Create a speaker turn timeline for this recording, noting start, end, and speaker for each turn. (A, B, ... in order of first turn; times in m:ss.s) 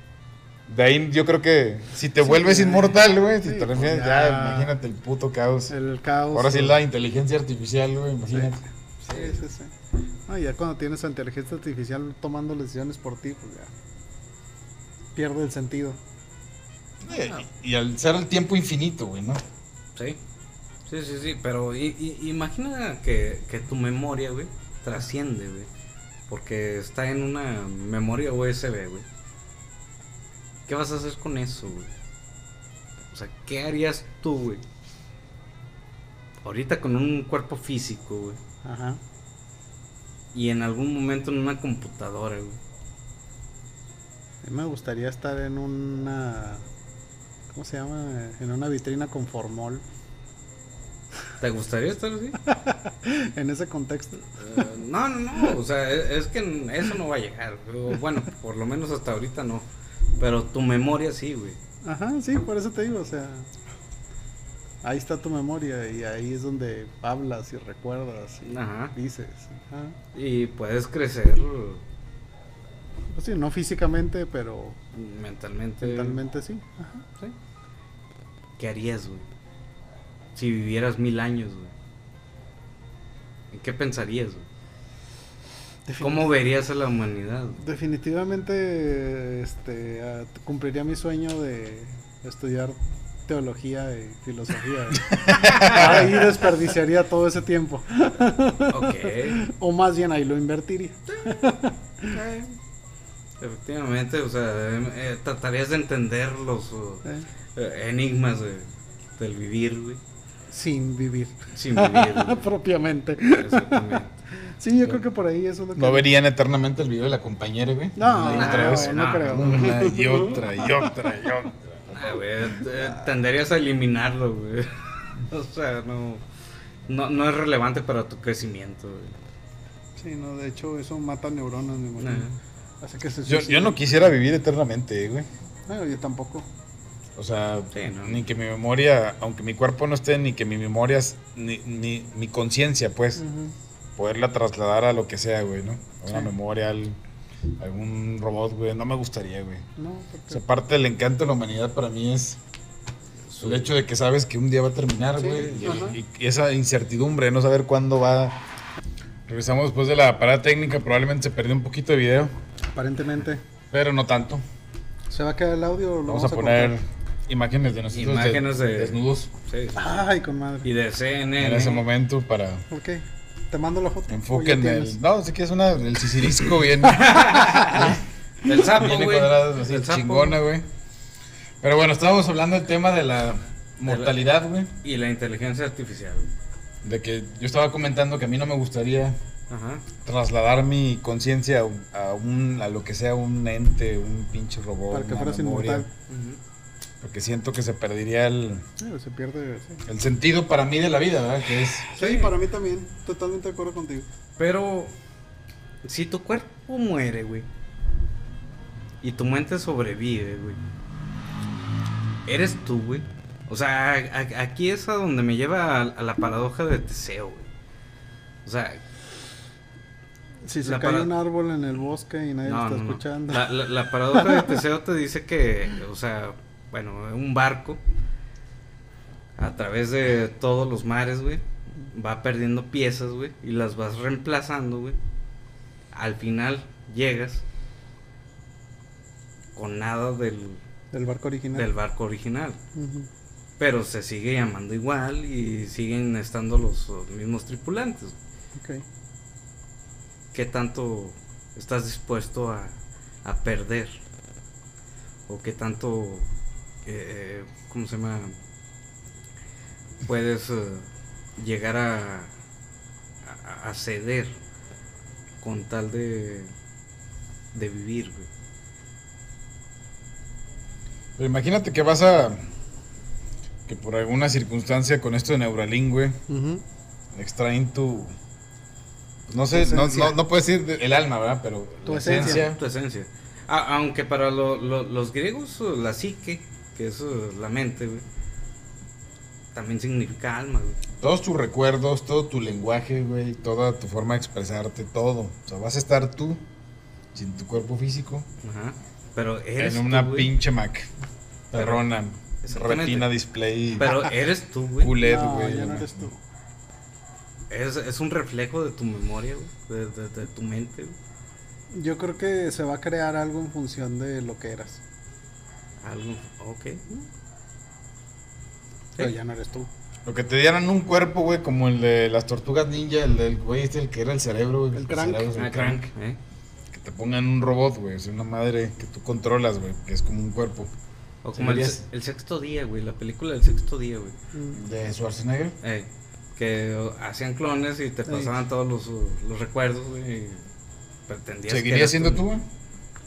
0:00.7-0:05.7 A
0:02.2-0:04.7 B
0:05.7-0:06.8 B
0:06.3-0:08.6 A
0:09.0-0:09.7 B
0:09.1-0:09.4 C
0:10.3-0:13.7 B
0:15.2-0:16.0 B
0:17.0-0:19.4 A
0:20.9-0:25.7 C
0:26.3-0:29.0 C
0:30.7-0:31.9 C
0:33.1-0:34.6 C
0:36.4-0:38.4 C
0:38.6-0:39.0 B
0:40.3-0:42.6 C
0:44.4-0:46.6 B
0:47.5-0:49.8 B
0:51.4-0:52.4 C
0:52.5-0:54.3 B
0:54.3-0:59.7 C
1:00.2-1:01.6 C
1:01.8-1:03.5 B
1:04.8-1:10.0 B
1:08.4-1:08.9 C
1:10.1-1:11.8 C
1:13.1-1:14.8 B
1:14.9-1:16.2 C
1:15.8-1:17.0 B
1:18.6-1:19.3 C
1:20.3-1:21.7 C
1:23.5-1:24.5 C
1:25.8-1:26.3 B
1:26.0-1:27.6 C
1:27.6-1:42.2 B
1:35.1-1:36.3 A
1:35.4-1:35.8 C
1:38.7-1:39.4 C
1:41.1-1:41.6 C
1:42.1-1:42.6 C
1:43.4-1:50.0 C
1:50.5-1:56.1 B
1:51.5-1:52.5 C
1:53.3-1:54.2 C
1:55.7-2:02.0 A
1:58.0-2:00.9 B
1:58.2-1:59.7 C
2:01.9-2:06.2 C
2:02.7-2:03.0 B
2:06.9-2:09.2 C
2:10.0-2:12.3 B
2:12.0-2:12.4 C
2:12.8-2:14.0 B
2:13.2-2:15.3 A
2:15.7-2:16.5 B
2:17.2-2:23.2 A
2:17.7-2:18.2 C
2:23.2-2:23.5 B
2:24.0-2:27.0 A
2:27.6-2:29.6 A
2:29.8-2:30.4 B
2:30.3-2:32.4 A
2:33.3-2:33.7 C
2:33.4-2:38.4 A
2:35.2-2:36.0 B
2:35.4-2:35.9 C
2:39.3-2:42.3 A
2:42.7-2:43.4 B
2:43.7-2:44.4 A
2:45.1-2:46.8 B
2:46.1-2:49.3 A
2:47.9-2:50.0 C
2:49.8-2:50.7 B
2:50.6-2:51.8 C
2:51.4-2:52.6 A
2:52.7-2:55.0 B
2:54.1-2:58.0 A
2:56.8-3:00.4 C
2:58.6-3:00.7 A
3:01.6-3:04.7 A
3:03.8-3:04.2 C
3:04.8-3:06.3 C
3:06.8-3:09.2 A
3:09.5-3:09.8 C
3:10.0-3:15.8 A
3:14.9-3:15.9 B
3:16.1-3:16.4 C
3:17.0-3:18.6 A
3:18.8-3:19.8 B
3:19.8-3:21.9 A
3:21.9-3:24.1 B
3:22.0-3:22.3 C
3:24.4-3:24.9 C
3:25.8-3:27.4 C
3:29.0-3:30.6 C
3:32.2-3:37.5 C
3:38.4-3:38.8 C
3:40.4-3:43.5 B
3:40.6-3:41.1 C
3:42.4-3:47.8 C
3:44.1-3:44.6 B
3:49.4-3:55.0 C
3:55.9-3:57.4 C
3:59.5-4:00.6 C
4:00.9-4:01.7 B
4:01.5-4:02.6 C
4:02.7-4:03.1 B
4:03.6-4:08.2 C
4:08.6-4:08.8 B
4:10.3-4:13.9 C
4:15.3-4:16.3 C
4:16.8-4:18.4 C
4:20.0-4:22.3 C
4:23.2-4:24.4 C
4:25.4-4:26.5 C
4:27.5-4:28.3 C
4:31.2-4:32.4 A
4:33.7-4:36.2 A
4:36.3-4:36.6 B
4:37.1-4:38.1 A
4:39.3-4:42.6 A
4:39.5-4:40.2 B
4:41.8-4:42.5 B
4:42.0-4:48.0 C
4:49.5-4:50.8 C
4:51.0-4:56.4 A
4:57.1-4:58.3 A
4:58.4-5:00.3 C
4:59.6-5:00.9 A
5:01.5-5:04.0 A
5:01.5-5:01.8 C
5:02.4-5:03.1 C
5:03.8-5:05.0 C
5:04.8-5:06.1 A
5:05.0-5:06.2 B
5:07.5-5:11.0 C
5:11.7-5:14.8 B
5:15.8-5:17.0 C
5:19.0-5:19.7 B
5:20.0-5:25.9 A
5:24.7-5:25.3 B
5:25.4-5:26.2 C
5:26.7-5:30.7 A
5:31.2-5:34.2 C
5:31.3-5:31.8 A
5:34.3-5:34.6 B
5:34.5-5:35.6 A
5:35.6-5:40.4 C
5:38.1-5:38.3 B
5:41.1-5:42.2 C
5:41.5-5:42.4 A